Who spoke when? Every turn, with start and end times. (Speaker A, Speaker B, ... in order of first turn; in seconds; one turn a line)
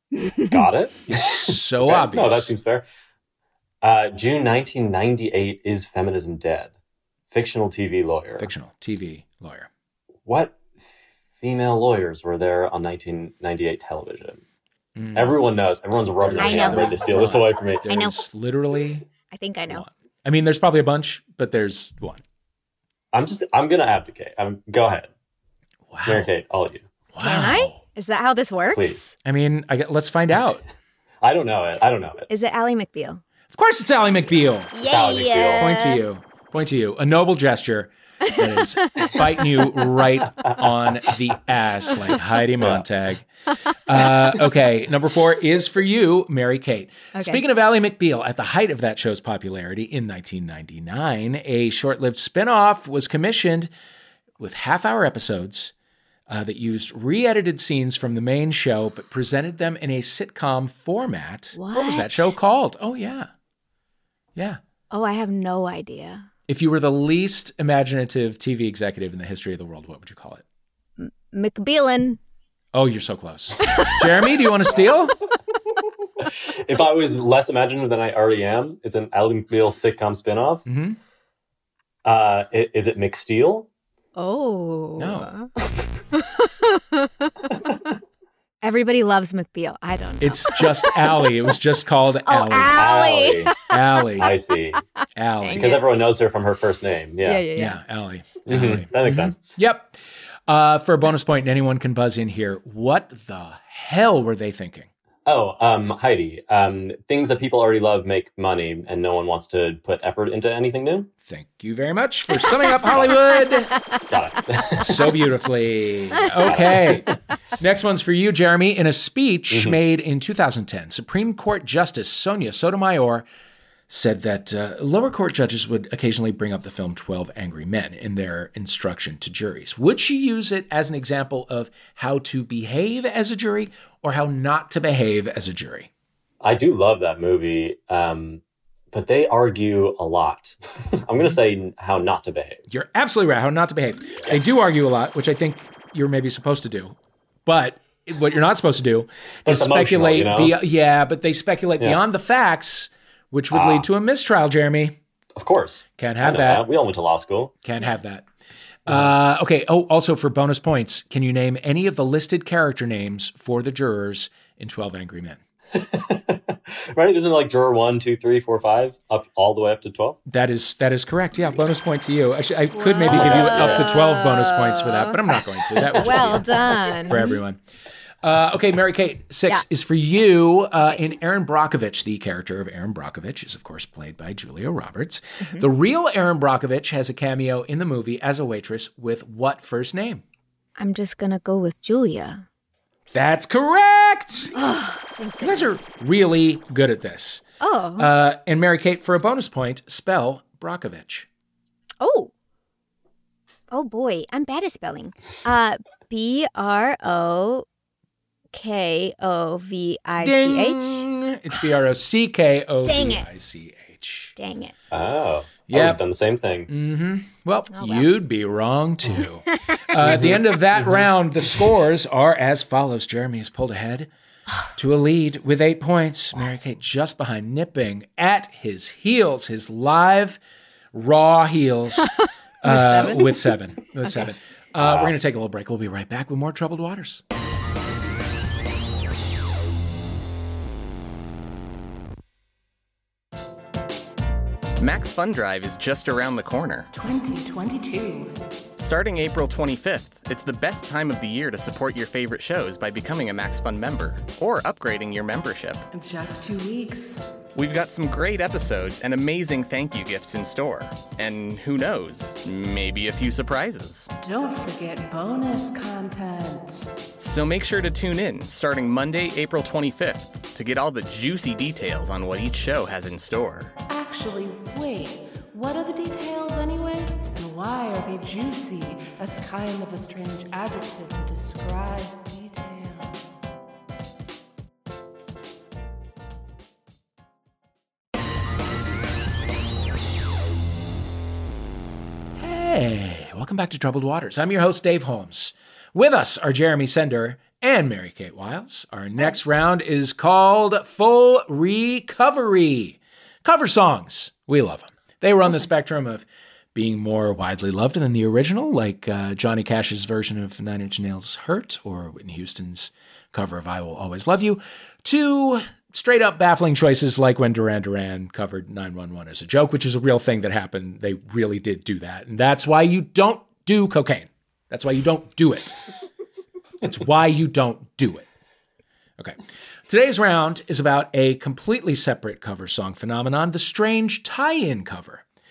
Speaker A: 0.5-2.8
Speaker B: 1.1-2.5
Speaker A: 3.8-6.7
Speaker A: 7.3-8.5
Speaker B: 8.4-9.7
Speaker A: 10.2-10.6
Speaker A: 11.4-14.4
Speaker B: 14.9-15.4
Speaker A: 15.1-17.9
Speaker B: 16.2-19.0
Speaker C: 16.4-16.9
Speaker C: 17.9-18.2
Speaker C: 19.3-19.9
Speaker B: 19.7-22.2
Speaker A: 23.1-25.1
Speaker B: 25.9-26.3
Speaker A: 26.1-26.9
Speaker B: 27.1-27.8
Speaker C: 27.2-29.2
Speaker A: 28.7-29.0
Speaker B: 29.2-30.6
Speaker A: 31.2-32.3
Speaker C: 32.3-33.2
Speaker B: 33.5-34.7
Speaker C: 34.7-36.0
Speaker A: 34.9-35.7
Speaker B: 35.5-43.3
Speaker A: 40.4-40.9
Speaker B: 43.9-53.7
Speaker C: 47.1-47.4
Speaker B: 54.4-55.7
Speaker B: 56.3-63.3
Speaker C: 61.5-62.3
Speaker C: 64.9-66.3
Speaker B: 66.5-70.4
Speaker C: 71.0-72.2
Speaker B: 72.7-75.2
Speaker A: 76.2-80.6
Speaker B: 80.7-81.0
Speaker A: 82.0-83.7
Speaker C: 84.2-85.5
Speaker B: 85.0-85.3
Speaker C: 86.1-87.3
Speaker C: 88.6-90.9
Speaker B: 90.2-92.9
Speaker C: 92.2-94.2
Speaker A: 92.7-93.5
Speaker B: 93.7-94.3
Speaker A: 94.2-94.8
Speaker B: 95.2-95.7
Speaker C: 95.4-95.8
Speaker A: 95.5-97.4
Speaker C: 97.2-97.8
Speaker B: 97.5-104.9
Speaker A: 98.5-99.4
Speaker A: 105.2-111.1
Speaker B: 111.2-113.7
Speaker A: 114.1-115.0
Speaker B: 114.8-123.2
Speaker A: 116.4-117.2
Speaker A: 119.5-119.8
Speaker B: 123.9-135.9
Speaker A: 136.4-142.6
Speaker B: 142.7-155.0
Speaker A: 144.2-144.5
Speaker A: 149.4-150.6
Speaker A: 153.5-153.8
Speaker A: 155.3-157.5
Speaker B: 156.0-156.7
Speaker B: 157.6-158.3
Speaker B: 158.8-165.4
Speaker A: 158.9-159.1
Speaker A: 165.7-170.2
Speaker B: 170.3-177.6
Speaker C: 172.7-175.2
Speaker A: 173.1-173.8
Speaker A: 175.8-177.0
Speaker C: 175.9-177.4
Speaker B: 178.2-190.2
Speaker C: 190.8-192.4
Speaker B: 193.1-194.6
Speaker C: 194.5-195.8
Speaker B: 195.4-197.4
Speaker C: 197.6-198.1
Speaker B: 198.0-201.3
Speaker C: 202.0-202.3
Speaker C: 203.7-207.7
Speaker C: 208.5-211.1
Speaker B: 210.2-214.3
Speaker C: 212.8-213.2
Speaker C: 214.4-214.7
Speaker A: 214.9-216.7
Speaker B: 215.7-216.0
Speaker B: 216.7-224.1
Speaker C: 217.7-218.1
Speaker C: 219.5-219.8
Speaker A: 220.0-221.1
Speaker B: 224.7-230.4
Speaker B: 230.9-237.2
Speaker C: 232.6-233.5
Speaker A: 234.8-235.1
Speaker D: 244.8-246.9
Speaker E: 246.9-248.4
Speaker D: 248.8-255.8
Speaker E: 255.9-257.2
Speaker D: 257.6-264.1
Speaker E: 264.2-266.9
Speaker D: 267.2-273.7
Speaker E: 273.9-283.4
Speaker B: 292.4-325.8
Speaker B: 326.8-328.2
Speaker B: 329.2-335.2